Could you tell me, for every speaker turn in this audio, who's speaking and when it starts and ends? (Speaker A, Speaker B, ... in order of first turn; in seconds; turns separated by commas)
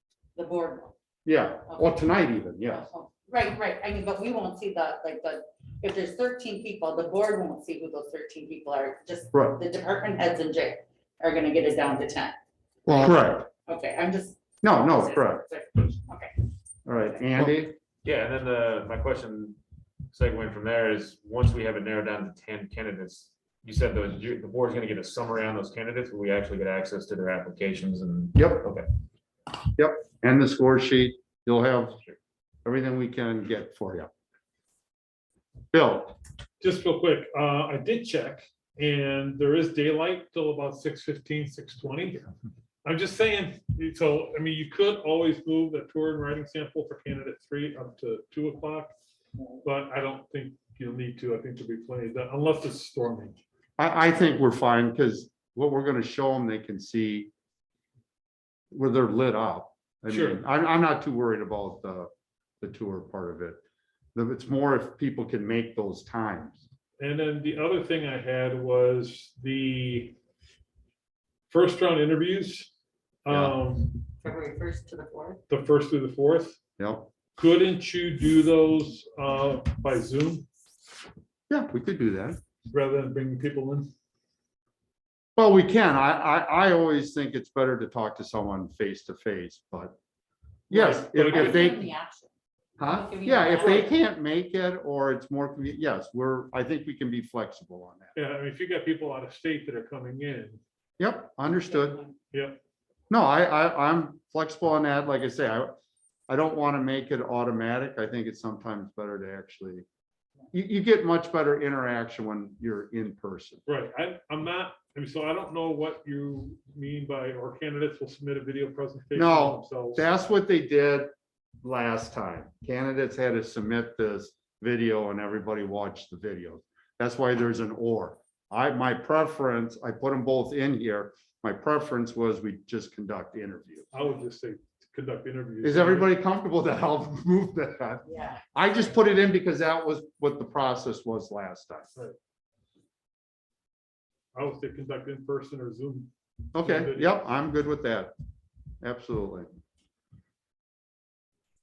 Speaker A: 0.3-0.9, Speaker B: 1.2-2.8, Speaker A: 1.7-2.0, Speaker A: 2.6-12.3, Speaker B: 9.3-9.6, Speaker B: 12.9-13.5, Speaker A: 13.7-16.3, Speaker B: 14.6-15.4, Speaker B: 16.9-17.8, Speaker C: 18.0-19.6, Speaker C: 20.1-28.9, Speaker B: 28.3-28.7, Speaker B: 29.8-32.0, Speaker B: 32.6-34.1, Speaker B: 35.7-36.1, Speaker D: 36.6-42.3, Speaker D: 42.8-48.9, Speaker D: 49.6-53.4, Speaker B: 53.8-57.3, Speaker B: 58.7-62.1, Speaker D: 60.1-60.4, Speaker B: 62.6-63.6, Speaker B: 64.1-66.6, Speaker D: 67.0-70.1, Speaker D: 71.5-72.7, Speaker D: 73.2-74.0, Speaker B: 73.3-73.6, Speaker A: 74.2-75.4, Speaker D: 75.5-76.6, Speaker B: 76.8-77.1, Speaker D: 77.3-80.5, Speaker B: 81.5-82.4, Speaker D: 82.7-83.9, Speaker B: 85.3-90.0, Speaker B: 90.7-91.9, Speaker D: 90.7-91.8, Speaker A: 91.2-94.0, Speaker B: 92.8-98.1, Speaker D: 98.1-100.6, Speaker B: 101.0-102.0, Speaker A: 101.7-102.2, Speaker D: 102.3-102.6, Speaker B: 103.1-105.8, Speaker B: 106.3-109.8, Speaker B: 110.5-113.6, Speaker D: 113.7-120.0, Speaker B: 119.1-121.1, Speaker B: 121.6-133.9, Speaker D: 133.9-136.1, Speaker B: 135.6-141.9, Speaker A: 138.0-138.8, Speaker D: 144.3-147.3, Speaker B: 146.5-148.1, Speaker B: 148.8-149.5